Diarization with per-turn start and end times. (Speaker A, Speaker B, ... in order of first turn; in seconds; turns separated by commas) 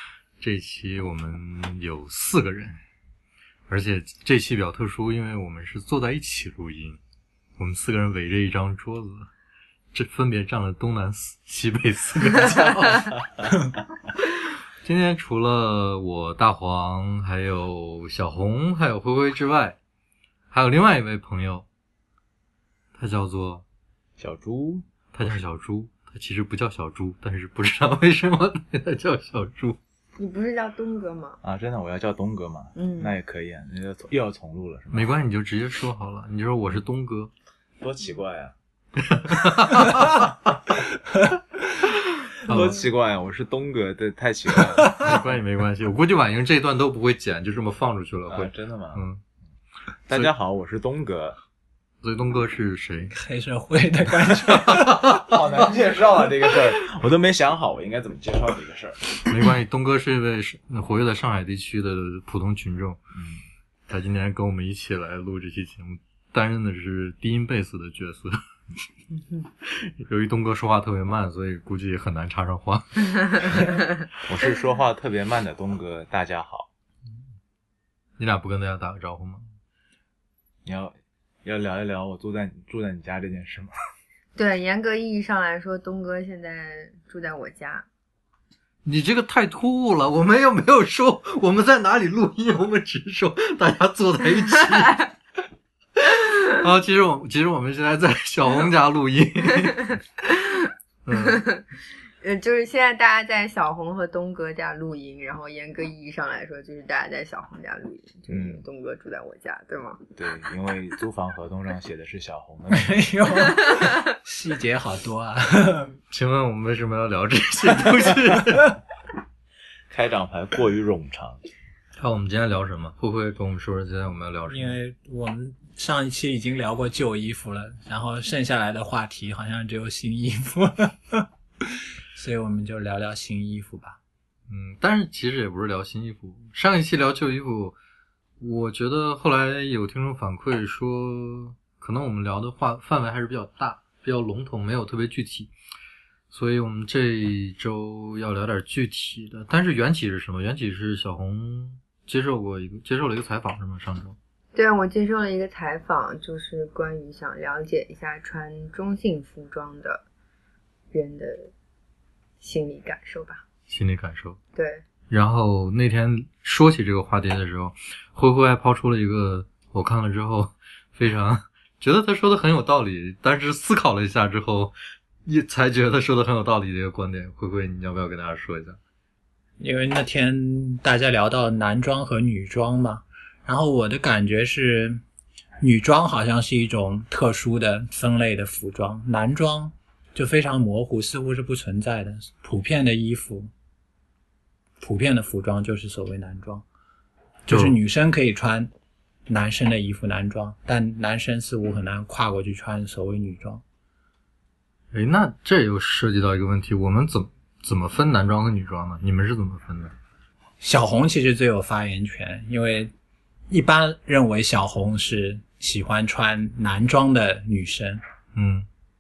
Speaker A: 0.4-2.8, Speaker A: 3.7-7.0, Speaker A: 7.6-9.3, Speaker A: 9.9-13.2, Speaker A: 14.8-19.8, Speaker A: 20.5-21.6, Speaker A: 23.0-23.6, Speaker B: 24.2-25.4, Speaker A: 25.1-29.8, Speaker C: 30.2-31.4, Speaker B: 31.4-35.1, Speaker C: 32.8-33.1, Speaker A: 34.9-37.3, Speaker B: 37.8-38.5, Speaker A: 39.0-40.3, Speaker A: 42.5-42.8, Speaker B: 42.5-45.2, Speaker A: 45.0-49.2, Speaker B: 48.3-49.0, Speaker B: 50.1-51.4, Speaker A: 52.0-53.1, Speaker D: 53.1-55.2, Speaker B: 55.2-59.2, Speaker A: 59.2-63.0, Speaker B: 63.1-63.4, Speaker A: 63.9-68.4, Speaker A: 69.6-73.5, Speaker B: 74.3-76.7, Speaker A: 78.2-79.5, Speaker B: 80.6-83.7, Speaker C: 84.3-87.8, Speaker A: 88.8-95.1, Speaker A: 96.0-99.9, Speaker C: 100.2-101.6, Speaker A: 101.0-101.4, Speaker C: 102.2-110.1, Speaker B: 108.3-108.6, Speaker B: 110.2-113.5, Speaker D: 112.7-115.9, Speaker A: 116.1-118.7, Speaker B: 119.9-121.4, Speaker A: 122.0-124.8, Speaker D: 124.5-134.0, Speaker A: 134.5-137.8, Speaker A: 138.4-145.5, Speaker A: 146.3-154.2, Speaker C: 154.5-160.0, Speaker C: 160.9-161.5, Speaker C: 162.4-163.4, Speaker A: 163.7-164.4, Speaker C: 164.6-164.8, Speaker A: 165.1-174.7, Speaker A: 175.2-178.8, Speaker D: 179.6-185.0, Speaker D: 185.6-193.5, Speaker D: 194.8-196.6, Speaker D: 197.4-198.7, Speaker A: 197.5-197.8, Speaker D: 199.3-203.6, Speaker A: 204.9-209.9, Speaker D: 210.6-212.9, Speaker D: 213.5-218.0, Speaker A: 218.3-218.7